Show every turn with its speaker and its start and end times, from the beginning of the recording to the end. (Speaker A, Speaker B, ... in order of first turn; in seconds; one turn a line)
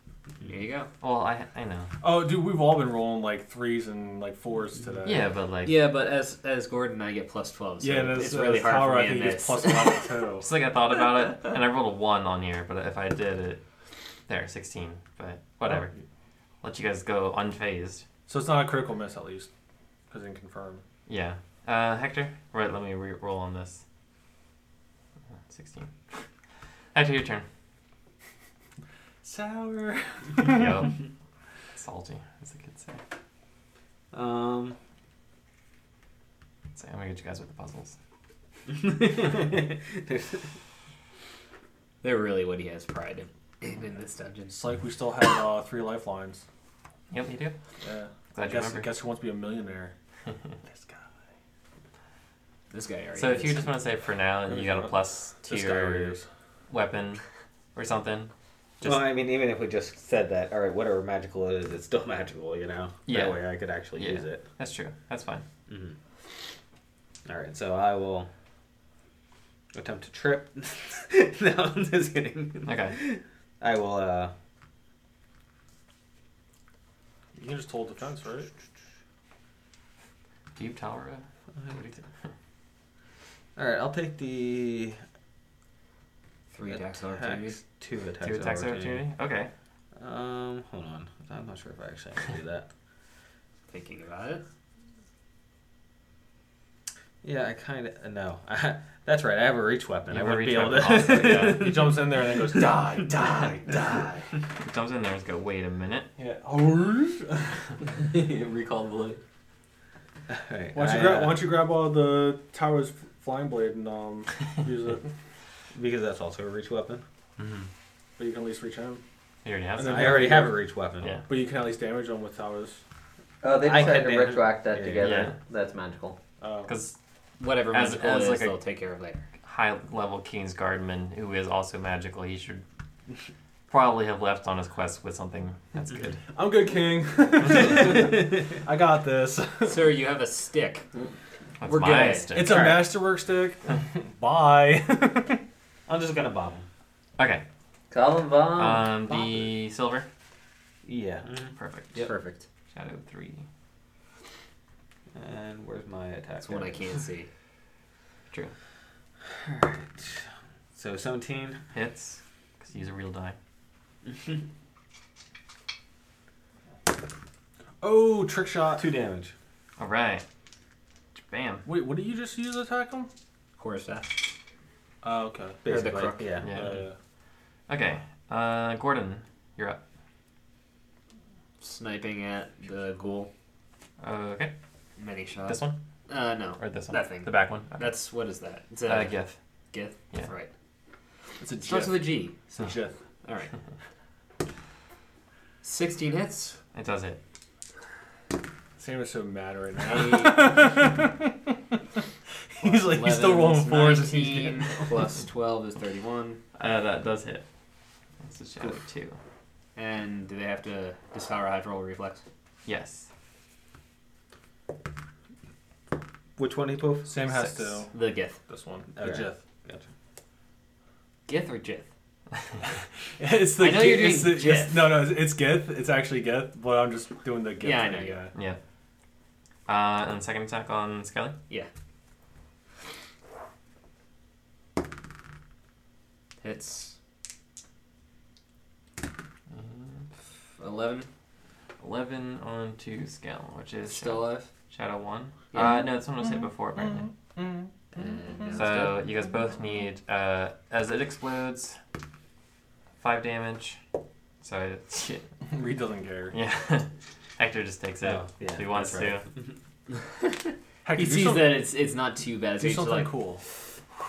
Speaker A: 0.5-0.9
Speaker B: 1.0-1.9
Speaker C: 2.0-5.3
Speaker B: 5.0-5.8
Speaker A: 5.7-10.1
Speaker C: 7.8-10.5
Speaker B: 10.4-13.6
Speaker B: 14.3-15.9
Speaker B: 16.6-18.1
Speaker C: 18.3-19.5
Speaker C: 20.1-20.8
Speaker B: 21.1-23.8
Speaker B: 25.4-26.2
Speaker B: 26.9-27.4
Speaker C: 29.2-30.9
Speaker B: 30.4-31.0
Speaker B: 31.7-33.0
Speaker D: 34.1-34.8
Speaker B: 36.8-38.0
Speaker D: 38.7-40.5
Speaker A: 42.0-44.8
Speaker C: 44.5-46.4
Speaker B: 47.1-47.5
Speaker C: 47.8-49.9
Speaker B: 48.3-48.9
Speaker C: 50.7-51.0
Speaker A: 52.7-53.7
Speaker B: 53.1-56.2
Speaker C: 54.5-56.2
Speaker B: 56.7-57.2
Speaker B: 57.8-59.1
Speaker D: 58.8-64.5
Speaker B: 63.1-65.5
Speaker D: 65.7-66.0
Speaker D: 67.2-68.3
Speaker D: 69.7-74.3
Speaker B: 72.7-73.0
Speaker C: 77.4-78.5
Speaker B: 80.6-82.0
Speaker D: 83.6-85.0
Speaker A: 86.5-87.6
Speaker D: 86.7-89.1
Speaker B: 88.2-89.5
Speaker D: 90.0-92.7
Speaker A: 93.7-94.4
Speaker D: 97.2-102.8
Speaker B: 100.1-101.7
Speaker C: 101.2-104.3
Speaker B: 104.6-106.1
Speaker C: 106.2-107.7
Speaker E: 107.9-109.2
Speaker D: 110.3-111.4
Speaker C: 110.7-115.1
Speaker D: 115.7-117.0
Speaker B: 117.4-117.7
Speaker C: 118.2-119.0
Speaker B: 119.5-120.4
Speaker C: 119.8-120.6
Speaker D: 119.9-121.2
Speaker C: 121.3-122.8
Speaker E: 123.4-126.2
Speaker D: 123.6-125.3
Speaker B: 125.0-125.4
Speaker C: 126.4-126.7
Speaker B: 126.7-127.0
Speaker A: 127.4-129.3
Speaker B: 127.6-128.6
Speaker B: 129.4-132.6
Speaker B: 133.7-136.2
Speaker C: 136.3-140.0
Speaker A: 139.7-140.9
Speaker B: 141.6-142.9
Speaker A: 141.7-142.7
Speaker C: 142.3-145.4
Speaker D: 145.9-146.7
Speaker B: 147.2-147.4
Speaker E: 147.9-149.4
Speaker B: 148.6-150.1
Speaker D: 150.8-152.2
Speaker B: 151.6-152.0
Speaker A: 151.9-152.5
Speaker B: 152.7-153.5
Speaker D: 155.1-156.9
Speaker A: 156.4-157.3
Speaker D: 159.3-161.6
Speaker B: 161.7-163.4
Speaker D: 164.1-164.4
Speaker C: 167.8-168.9
Speaker D: 168.8-169.3
Speaker B: 169.8-170.2
Speaker B: 171.2-171.7
Speaker C: 171.7-173.1
Speaker A: 173.6-174.4
Speaker C: 175.0-175.6
Speaker D: 175.7-176.8
Speaker A: 175.7-176.3
Speaker B: 176.4-176.9
Speaker C: 176.4-176.9
Speaker B: 177.7-179.8
Speaker A: 181.6-183.3
Speaker B: 184.0-184.5
Speaker A: 185.0-189.2
Speaker B: 185.4-185.8
Speaker B: 186.6-188.0
Speaker B: 188.9-189.4
Speaker A: 189.7-190.5
Speaker C: 191.4-193.0
Speaker A: 191.6-192.4
Speaker A: 193.2-193.5
Speaker A: 195.6-196.6
Speaker B: 196.7-197.2
Speaker C: 198.8-201.8
Speaker A: 199.8-200.6
Speaker C: 202.6-205.2
Speaker A: 202.6-206.4
Speaker B: 206.6-207.4
Speaker B: 208.2-209.2
Speaker A: 209.8-212.2
Speaker B: 212.7-213.1
Speaker D: 216.4-217.1
Speaker C: 217.1-219.4
Speaker B: 217.2-217.9
Speaker A: 217.9-218.4
Speaker D: 218.9-219.8
Speaker A: 221.3-221.9
Speaker C: 222.6-228.3
Speaker A: 223.6-225.1
Speaker A: 227.6-228.2
Speaker B: 229.7-231.4
Speaker A: 236.4-237.0
Speaker B: 239.5-240.1
Speaker A: 240.6-241.1
Speaker B: 241.8-247.1
Speaker A: 243.9-244.5
Speaker A: 245.5-245.9
Speaker C: 246.2-248.0
Speaker A: 248.0-249.0
Speaker B: 248.5-251.8
Speaker B: 253.0-253.8
Speaker B: 254.4-255.3
Speaker C: 255.4-256.4
Speaker B: 256.3-259.2
Speaker D: 258.0-259.5
Speaker C: 260.9-261.7
Speaker A: 260.9-263.2
Speaker C: 262.5-263.4